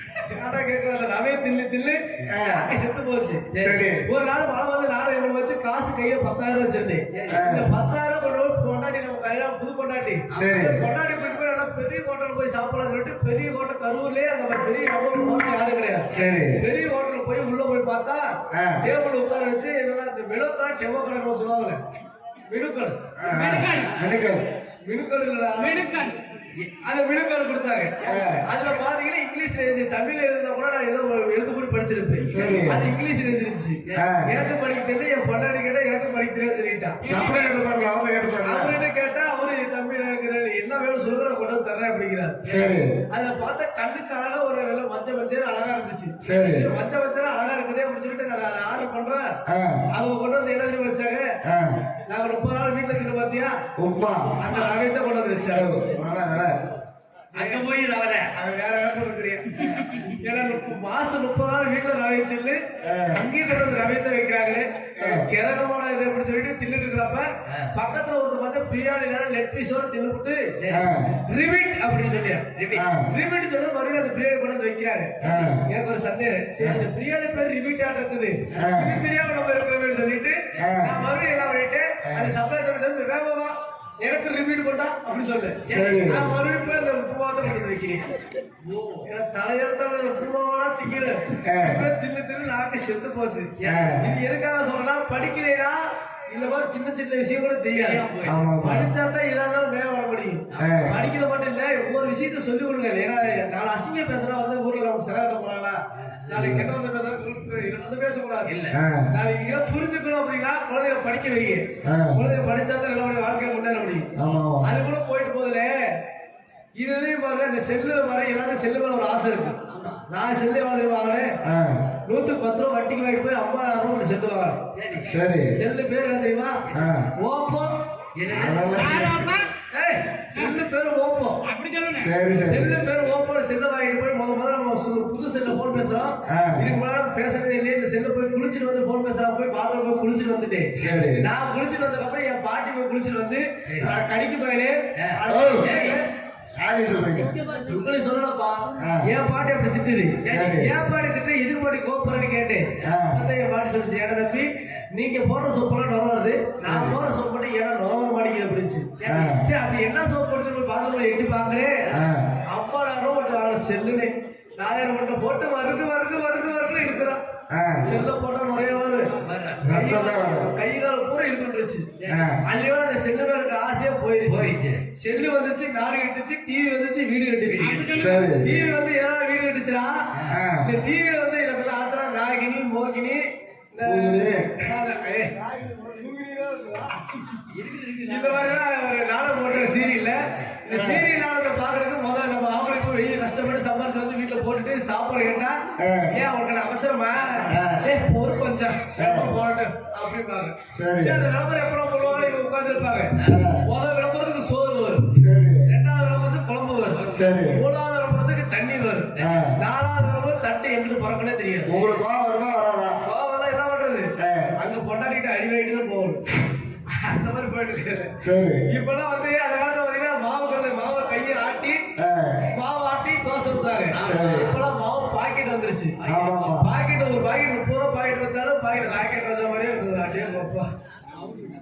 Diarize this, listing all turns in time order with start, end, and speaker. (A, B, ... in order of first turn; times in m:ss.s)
0:00.2-0:03.4 A
0:02.3-0:02.7 B
0:03.5-0:03.9 C
0:03.6-0:04.1 B
0:04.1-0:21.8 A
0:07.1-0:07.4 C
0:07.3-0:07.7 B
0:10.3-0:10.7 C
0:10.4-0:10.8 B
0:16.1-0:16.6 B
0:18.5-0:18.8 B
0:22.5-0:23.0 A
0:23.2-0:24.4 B
0:23.2-0:24.0 D
0:24.8-0:25.8 A
0:25.6-0:26.2 D
0:26.8-0:37.0 A
0:28.0-0:28.4 B
0:32.2-0:32.9 B
0:34.0-0:34.4 B
0:37.0-0:37.4 D
0:37.0-0:38.8 B
0:38.4-0:42.5 A
0:42.4-0:43.0 B
0:43.1-0:49.3 A
0:46.2-0:46.7 B
0:49.5-0:49.8 B
0:49.9-0:51.3 A
0:51.4-0:51.8 B
0:52.1-0:53.6 A
0:53.8-0:54.4 B
0:54.4-0:55.8 A
0:55.5-0:56.6 B
0:57.3-0:58.3 C
0:57.4-0:57.6 A
0:58.4-1:10.5 A
1:02.8-1:03.3 B
1:05.0-1:05.3 B
1:10.6-1:10.9 C
1:10.7-1:11.2 B
1:11.3-1:12.5 A
1:12.6-1:12.9 C
1:12.7-1:13.1 B
1:13.1-1:28.1 A
1:15.2-1:15.6 B
1:18.6-1:19.0 B
1:20.6-1:21.0 B
1:22.0-1:22.3 B
1:25.7-1:26.1 C
1:25.7-1:26.4 B
1:28.6-1:29.1 C
1:29.1-1:38.0 A
1:31.5-1:31.9 B
1:33.6-1:34.0 C
1:33.6-1:34.0 B
1:37.7-1:38.4 C
1:38.2-1:38.9 B
1:38.6-1:48.5 A
1:40.5-1:40.9 C
1:40.6-1:41.0 B
1:46.0-1:46.5 C
1:46.3-1:46.7 B
1:48.5-1:48.8 C
1:48.7-1:49.1 B
1:49.1-1:54.1 A
1:51.8-1:52.2 B
1:54.2-1:54.7 B
1:54.6-1:55.8 A
1:56.8-2:01.4 A
1:59.7-2:00.0 C
2:01.4-2:01.9 B
2:02.1-2:04.6 A
2:04.7-2:05.1 C
2:05.0-2:05.6 B
2:05.5-2:06.6 A
2:06.7-2:07.1 B
2:07.2-2:07.8 A
2:08.2-2:09.0 C
2:08.3-2:09.3 B
2:08.7-2:09.5 D
2:09.7-2:11.4 A
2:11.4-2:12.1 D
2:11.9-2:12.7 B
2:12.4-2:26.1 A
2:16.3-2:16.7 B
2:20.8-2:21.3 B
2:23.7-2:24.0 C
2:25.0-2:26.0 C
2:25.3-2:25.8 B
2:26.6-2:27.4 B
2:27.4-2:41.9 A
2:28.8-2:29.1 B
2:30.2-2:30.6 C
2:30.3-2:30.7 B
2:32.8-2:33.2 B
2:36.6-2:37.0 B
2:39.0-2:39.3 C
2:39.0-2:39.4 B
2:41.9-2:42.3 B
2:42.5-2:47.2 A
2:47.5-2:48.0 B
2:47.8-2:49.1 A
2:49.2-2:49.6 C
2:49.6-2:50.5 B
2:49.7-2:51.9 A
2:52.1-2:52.4 B
2:52.4-2:57.8 A
2:54.2-2:54.8 C
2:57.5-2:58.1 C
2:57.6-2:58.2 D
2:57.9-2:58.6 B
2:58.4-3:07.1 A
3:00.3-3:00.7 B
3:03.8-3:04.7 B
3:07.5-3:08.6 C
3:08.0-3:25.1 A
3:10.7-3:11.1 B
3:15.8-3:16.2 B
3:17.4-3:17.9 B
3:19.0-3:19.3 B
3:20.7-3:21.3 B
3:23.2-3:23.6 B
3:25.1-3:25.7 B
3:25.7-3:31.8 A
3:26.9-3:27.3 C
3:27.1-3:27.6 B
3:29.2-3:29.6 B
3:31.7-3:33.0 B
3:33.0-3:36.2 A
3:34.2-3:34.5 B
3:36.9-3:38.2 A
3:38.2-3:38.7 B
3:38.7-3:41.8 A
3:42.0-3:42.5 B
3:42.5-3:46.0 A
3:43.9-3:44.6 C
3:44.0-3:44.5 B
3:46.0-3:46.5 C
3:46.1-3:46.7 B
3:46.6-3:50.7 A